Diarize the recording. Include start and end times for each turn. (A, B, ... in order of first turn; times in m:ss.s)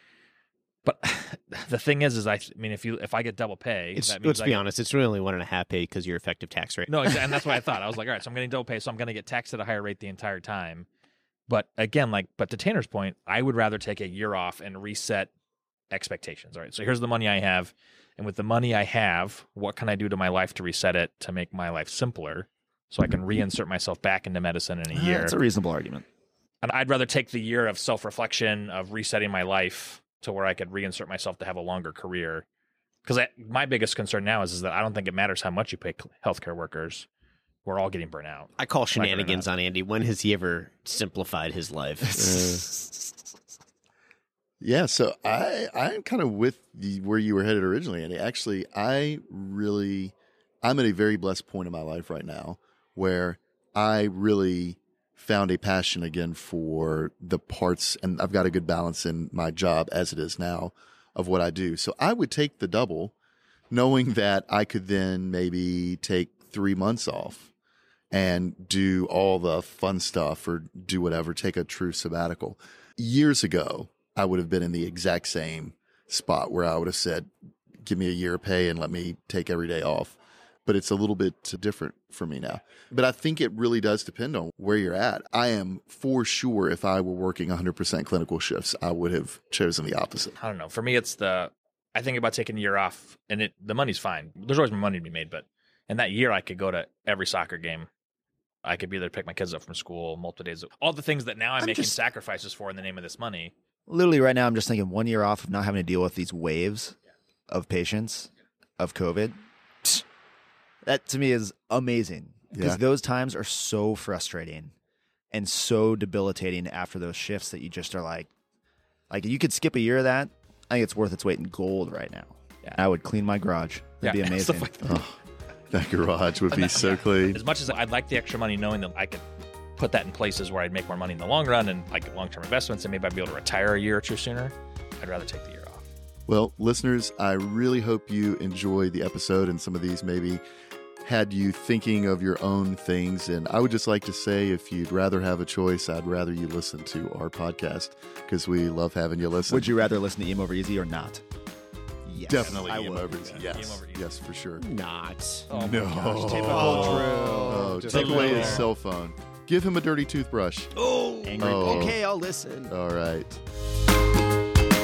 0:00.8-0:04.6 A
0:04.0-0:07.6 B
0:06.9-0:10.9 A
0:11.5-0:15.3 A
0:15.9-0:25.4 A
0:24.9-0:26.0 C
0:26.6-0:32.4 A
0:33.0-0:37.1 A
0:37.6-0:39.5 A
0:38.6-0:42.8 B
0:42.1-0:42.7 D
0:44.6-1:03.2 D
1:03.7-1:07.5 D
1:08.1-1:17.3 D
1:17.8-1:30.3 D
1:30.4-1:37.9 A
1:38.6-1:43.5 A
1:41.6-1:42.0 C
1:43.9-1:47.0 C
1:47.5-1:50.0 C
1:50.8-1:54.7 C
1:52.5-1:52.8 D
1:55.3-1:58.3 C
1:59.1-2:04.9 C
2:04.0-2:05.0 A
2:04.8-2:05.2 D
2:05.7-2:07.4 D
2:06.5-2:09.2 A
2:09.8-2:15.8 A
2:16.3-2:20.4 D
2:21.0-2:29.9 D
2:29.5-2:31.2 C
2:32.0-2:33.4 C
2:32.3-2:34.6 D
2:32.4-2:32.7 A
2:33.2-2:34.0 A
2:34.6-2:35.5 B
2:35.5-2:38.7 C
2:35.5-2:35.9 A
2:35.5-2:40.7 D
2:36.4-2:38.5 B
2:36.5-2:36.9 A
2:37.9-2:38.4 A
2:40.8-2:42.7 C
2:41.4-2:42.0 D
2:42.7-2:43.3 D